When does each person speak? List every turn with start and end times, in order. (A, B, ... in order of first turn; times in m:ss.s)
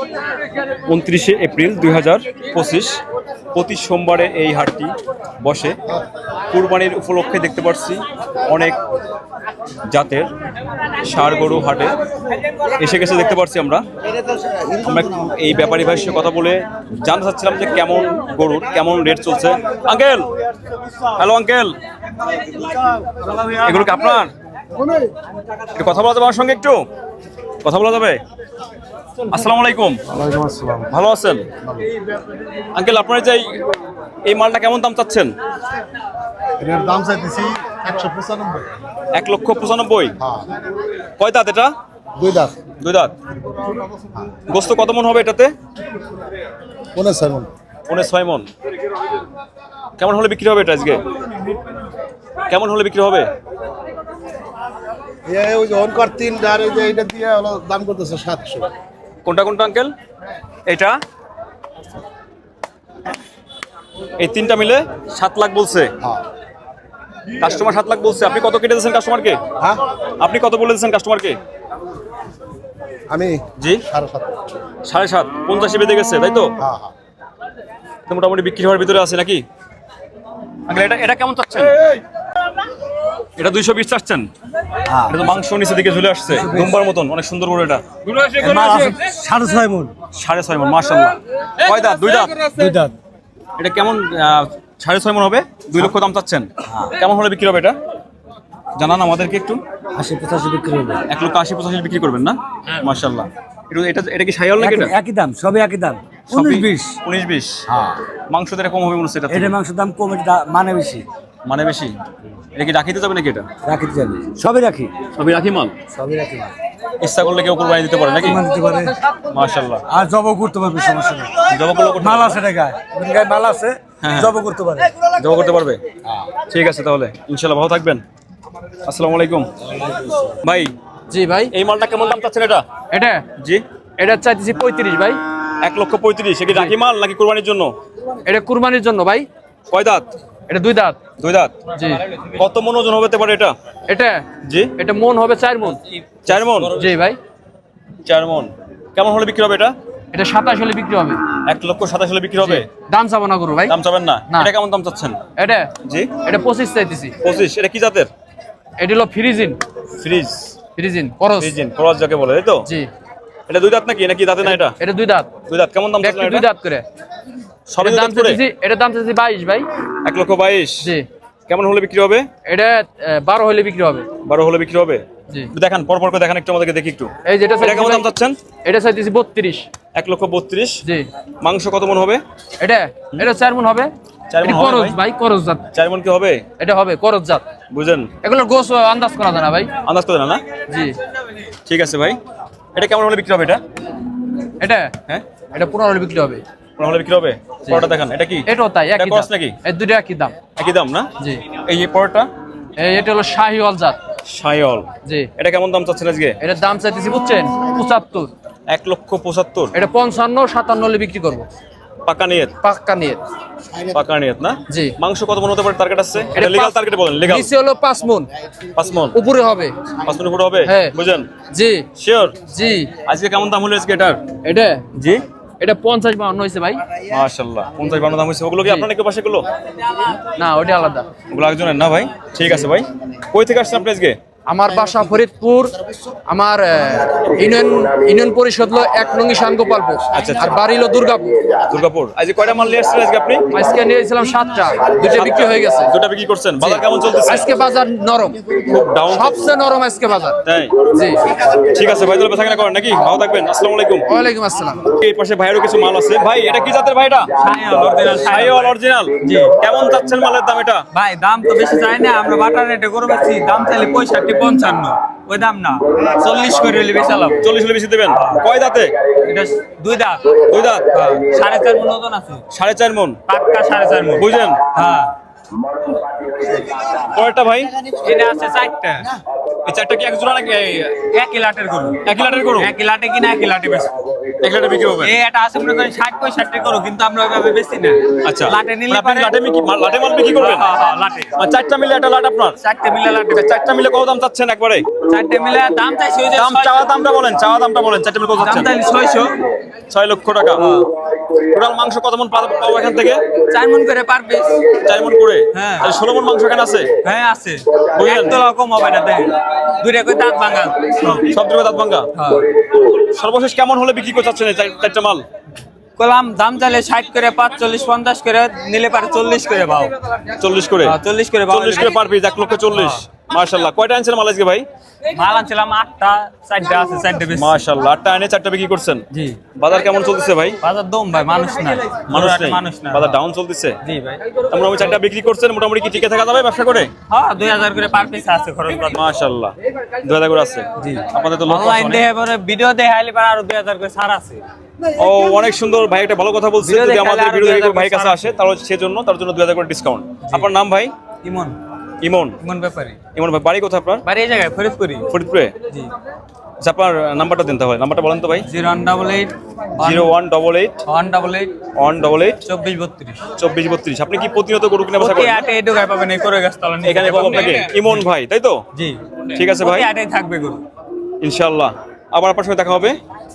0:00.9-0:03.0 A
0:03.5-0:05.8 A
0:06.5-0:08.8 A
0:09.9-0:10.3 A
0:11.0-0:11.9 A
0:12.7-0:13.8 A
0:14.8-0:20.3 A
0:21.1-0:21.7 A
0:23.6-0:24.3 A
0:25.7-0:26.8 A
0:27.6-0:28.2 A
0:29.3-0:30.0 A
0:30.1-0:30.9 B
0:30.9-0:31.4 A
0:31.6-0:31.9 B
0:32.7-0:33.6 A
0:34.2-0:35.3 A
0:36.6-0:38.7 B
0:39.1-0:40.1 A
0:40.2-0:40.4 B
0:41.2-0:41.7 A
0:42.2-0:42.6 B
0:42.8-0:43.1 A
0:44.5-0:45.5 A
0:46.9-0:47.5 B
0:47.9-0:48.5 A
0:50.0-0:51.0 A
0:52.5-0:53.3 A
0:55.2-0:58.7 B
0:59.2-0:59.9 A
1:00.7-1:01.0 A
1:04.2-1:05.9 A
1:07.4-1:09.4 A
1:10.2-1:11.4 A
1:13.1-1:14.3 B
1:14.8-1:16.5 A
1:16.6-1:16.9 B
1:18.1-1:19.4 A
1:20.7-1:21.7 A
1:23.4-1:24.3 A
1:24.9-1:25.4 C
1:25.1-1:27.8 A
1:26.3-1:26.8 C
1:28.2-1:29.9 C
1:30.1-1:32.5 A
1:32.5-1:33.0 C
1:33.6-1:37.8 A
1:36.6-1:36.9 C
1:38.8-1:39.6 A
1:39.9-1:41.0 C
1:41.1-1:44.9 A
1:44.6-1:47.0 C
1:46.3-1:47.6 A
1:47.7-1:48.0 C
1:48.3-1:49.6 A
1:49.3-1:51.0 C
1:51.4-1:51.9 A
1:52.5-1:53.5 A
1:53.6-1:55.0 C
1:55.1-1:55.7 A
1:55.9-1:56.5 C
1:57.0-1:58.4 A
1:58.2-1:59.0 C
1:59.3-1:59.8 A
1:59.9-2:05.0 C
2:01.5-2:02.4 A
2:04.0-2:04.3 A
2:05.1-2:05.8 A
2:06.5-2:08.0 A
2:08.8-2:09.5 A
2:09.8-2:10.2 C
2:10.4-2:10.7 A
2:11.1-2:11.5 D
2:11.5-2:12.6 A
2:12.9-2:13.2 D
2:13.4-2:13.6 A
2:14.0-2:15.2 D
2:15.6-2:17.7 A
2:18.2-2:19.3 D
2:19.7-2:20.0 A
2:20.5-2:21.0 D
2:21.2-2:21.6 A
2:22.2-2:23.5 A
2:23.9-2:25.8 D
2:24.4-2:24.7 A
2:26.2-2:26.7 A
2:26.7-2:27.2 D
2:28.0-2:29.7 A
2:30.1-2:31.2 D
2:31.4-2:32.6 A
2:32.4-2:33.8 D
2:33.7-2:35.2 A
2:35.4-2:37.1 D
2:35.8-2:36.1 A
2:37.2-2:38.1 A
2:38.8-2:39.6 D
2:40.0-2:40.6 A
2:40.7-2:41.5 D
2:41.4-2:42.7 A
2:43.5-2:44.8 A
2:44.4-2:45.3 D
2:45.5-2:46.5 A
2:46.0-2:46.8 D
2:47.7-2:48.4 A
2:47.8-2:49.7 D
2:50.0-2:50.9 A
2:51.5-2:52.3 A
2:52.4-2:54.1 D
2:54.2-2:58.4 A
2:57.2-2:58.1 D
2:58.6-2:59.7 D
2:59.9-3:00.8 A
3:01.4-3:02.2 A
3:02.6-3:05.6 D
3:04.3-3:05.0 A
3:05.7-3:06.4 A
3:06.6-3:07.4 D
3:07.7-3:08.1 A
3:08.2-3:09.7 D
3:09.8-3:10.4 A
3:10.7-3:11.0 D
3:11.6-3:12.2 A
3:12.7-3:13.6 A
3:14.6-3:15.0 D
3:15.5-3:16.4 D
3:16.8-3:19.6 A
3:18.4-3:20.4 D
3:20.6-3:22.3 A
3:22.8-3:24.0 D
3:24.2-3:26.4 A
3:25.0-3:25.3 D
3:26.4-3:28.3 D
3:28.7-3:29.8 A
3:29.7-3:31.5 D
3:32.0-3:32.5 A
3:32.6-3:33.2 D
3:33.8-3:37.5 A
3:34.7-3:35.0 D
3:36.3-3:38.3 D
3:38.7-3:39.2 A
3:39.1-3:39.7 D
3:40.0-3:41.3 A
3:40.6-3:41.8 D
3:42.0-3:42.4 A
3:42.5-3:42.9 D
3:43.0-3:44.2 A
3:44.4-3:44.9 D
3:45.0-3:45.2 A
3:45.6-3:46.8 D
3:47.1-3:49.5 A
3:50.2-3:51.1 D
3:51.3-3:54.2 A
3:54.5-4:01.6 D
4:00.1-4:00.6 A
4:01.6-4:03.5 A
4:03.5-4:05.9 D
4:05.8-4:07.5 A
4:06.6-4:11.3 D
4:08.6-4:09.5 A
4:10.4-4:10.8 A
4:11.6-4:14.0 A
4:14.1-4:14.9 D
4:14.9-4:17.3 A
4:17.3-4:19.6 E
4:18.2-4:20.8 A
4:20.9-4:27.4 E
4:27.4-4:28.9 A
4:28.1-4:28.4 E
4:29.2-4:32.4 E
4:30.4-4:30.9 A
4:32.5-4:33.2 A
4:33.3-4:35.2 E
4:34.2-4:34.6 A
4:36.9-4:37.8 A
4:37.8-4:39.2 E
4:39.6-4:41.0 A
4:41.0-4:44.1 E
4:42.0-4:42.7 A
4:44.4-4:45.1 A
4:45.0-4:49.4 E
4:48.2-4:50.7 A
4:50.3-4:51.3 E
4:51.4-4:52.6 A
4:52.6-4:53.4 E
4:53.3-4:54.9 A
4:55.0-4:56.8 E
4:56.3-4:58.7 A
4:58.4-4:59.4 E
4:59.9-5:00.7 A
5:00.6-5:00.9 E
5:01.3-5:03.2 A
5:03.5-5:04.6 E
5:04.7-5:06.9 A
5:05.5-5:05.9 E
5:07.0-5:11.3 E
5:08.0-5:08.4 A
5:11.2-5:15.2 A
5:12.1-5:12.4 E
5:16.0-5:19.9 E
5:20.4-5:21.0 A
5:20.8-5:22.0 E
5:21.5-5:24.6 A
5:22.7-5:23.0 E
5:25.1-5:27.6 E
5:27.3-5:29.0 A
5:29.1-5:29.4 E
5:29.6-5:30.6 A
5:30.6-5:33.2 E
5:32.1-5:33.8 A
5:33.8-5:34.9 E
5:34.5-5:36.9 A
5:37.1-5:39.0 E
5:38.9-5:42.0 A
5:40.8-5:44.4 E
5:45.0-5:50.9 A
5:46.6-5:48.4 E
5:51.2-5:51.6 E
5:52.0-5:52.4 A
5:52.4-5:53.0 E
5:53.1-5:54.0 A
5:54.0-5:55.1 E
5:55.1-5:55.5 A
5:56.6-5:58.5 A
5:58.4-6:00.1 E
5:59.8-6:00.8 A
6:00.8-6:01.5 E
6:01.7-6:02.4 A
6:02.4-6:03.2 E
6:03.4-6:05.4 A
6:05.0-6:08.0 E
6:06.8-6:08.6 A
6:08.7-6:10.6 E
6:09.3-6:09.9 A
6:11.2-6:13.0 A